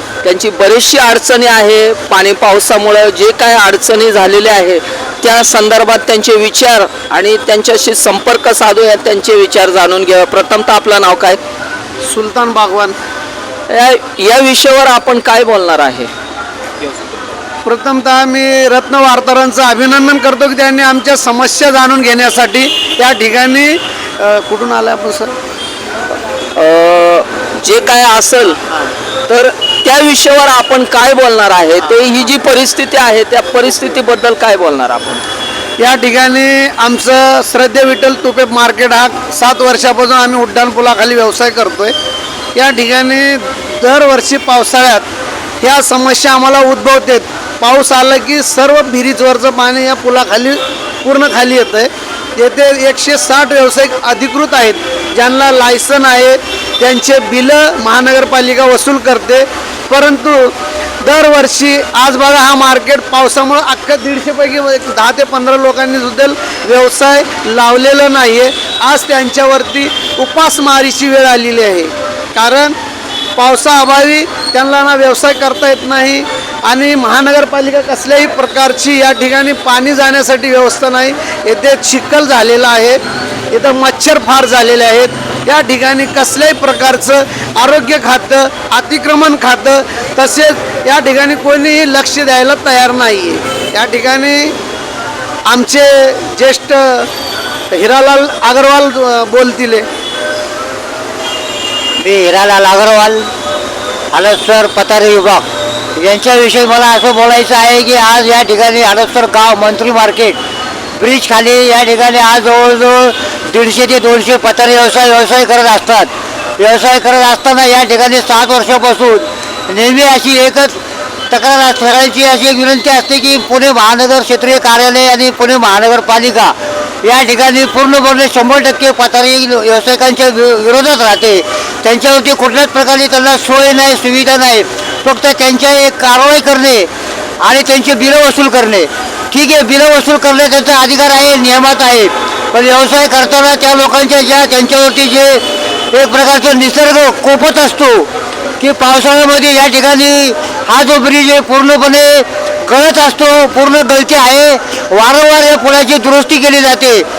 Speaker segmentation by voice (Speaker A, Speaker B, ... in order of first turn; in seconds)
Speaker A: 0.2-11.4, 13.7-16.1, 26.6-28.6, 29.3-35.2
Speaker B: 12.1-12.9, 17.6-25.3, 35.8-41.9, 42.5-45.0, 45.6-51.9, 52.4-60.4, 61.0-72.7, 73.4-76.2, 76.7-82.9, 83.5-89.7, 90.3-94.5, 95.5-97.0, 97.7-99.8
Speaker C: 102.0-103.3, 104.1-105.4, 106.0-110.4, 111.0-136.9, 137.4-148.1, 148.6-157.0